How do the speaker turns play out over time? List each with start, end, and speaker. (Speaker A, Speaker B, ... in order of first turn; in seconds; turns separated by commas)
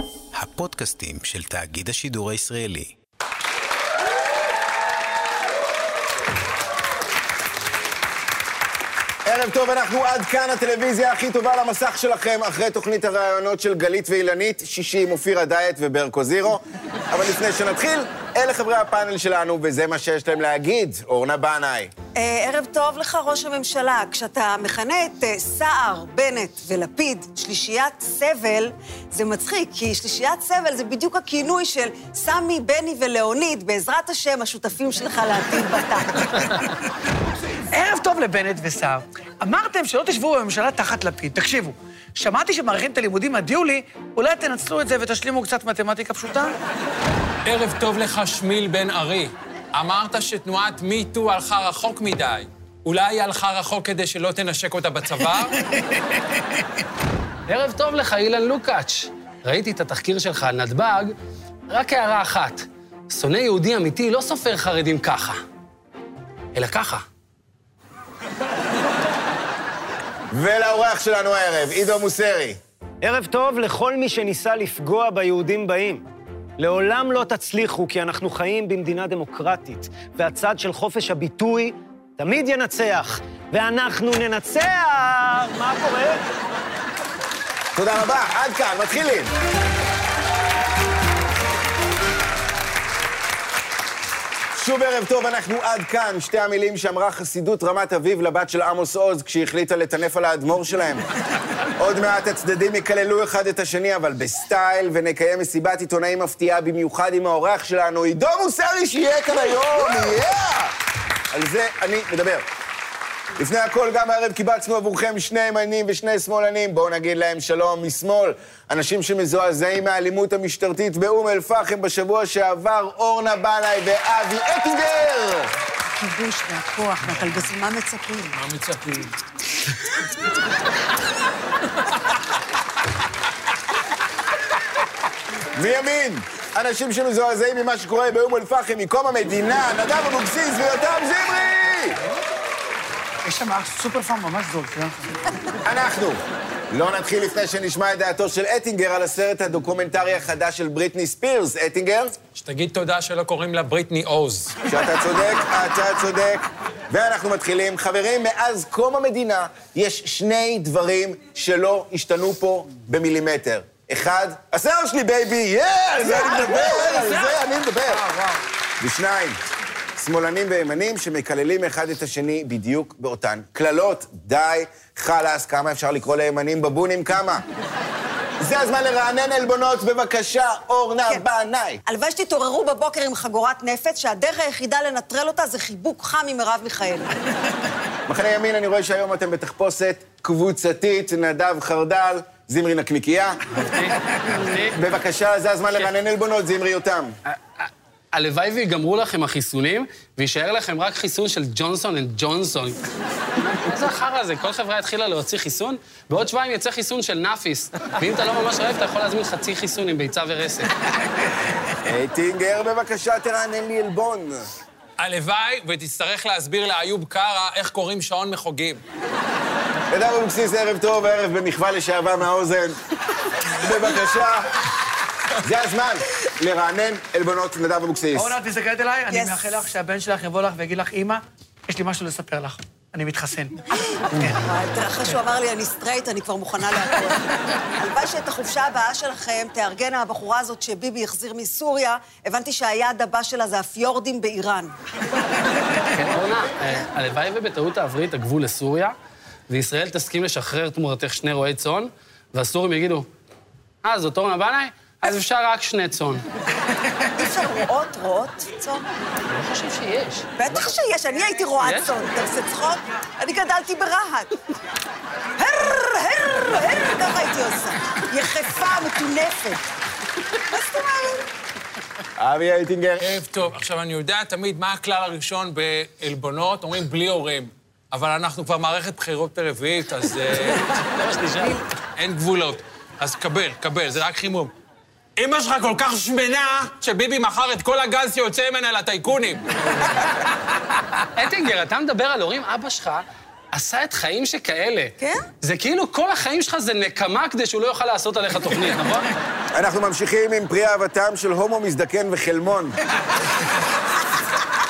Speaker A: 0.3-2.9, Speaker B: 9.2-21.9, Speaker C: 22.1-36.6, Speaker D: 37.7-46.5, Speaker E: 47.4-55.6, Speaker F: 57.5-61.1, Speaker F: 61.7-65.4, Speaker F: 66.5-67.0, Speaker B: 70.3-72.6, Speaker G: 73.0-76.0, Speaker G: 76.6-86.2, Speaker B: 87.8-89.3, Speaker B: 94.5-101.0, Speaker B: 101.8-110.7, Speaker B: 111.3-112.5, Speaker B: 113.4-125.5, Speaker C: 125.9-128.4, Speaker E: 128.3-129.2, Speaker B: 135.5-142.0, Speaker D: 143.2-145.3, Speaker B: 145.6-152.2, Speaker E: 152.3-154.5, Speaker B: 154.7-168.1, Speaker D: 166.0-167.2, Speaker D: 168.1-168.4, Speaker B: 168.8-169.4, Speaker B: 170.0-177.4, Speaker B: 178.4-181.8, Speaker C: 181.8-187.1, Speaker B: 188.1-193.5, Speaker F: 193.5-194.8, Speaker B: 194.6-197.1, Speaker F: 197.3-202.8, Speaker F: 203.4-210.7, Speaker B: 211.8-214.5, Speaker E: 215.0-218.8, Speaker B: 219.9-222.8, Speaker B: 223.5-224.6, Speaker B: 225.4-228.3, Speaker D: 228.1-233.6, Speaker C: 229.1-229.6, Speaker C: 234.0-237.2, Speaker C: 237.8-244.8, Speaker F: 245.9-248.9, Speaker F: 249.5-253.1, Speaker F: 253.8-256.2, Speaker C: 257.1-258.8, Speaker F: 259.3-260.3, Speaker C: 260.4-264.3, Speaker F: 261.6-261.9, Speaker C: 265.4-269.6, Speaker C: 270.5-271.2, Speaker B: 272.2-273.1, Speaker E: 273.0-280.9, Speaker F: 281.0-281.6, Speaker E: 282.0-284.5, Speaker E: 285.2-290.1, Speaker F: 291.1-299.1, Speaker C: 295.0-295.3, Speaker B: 299.5-302.8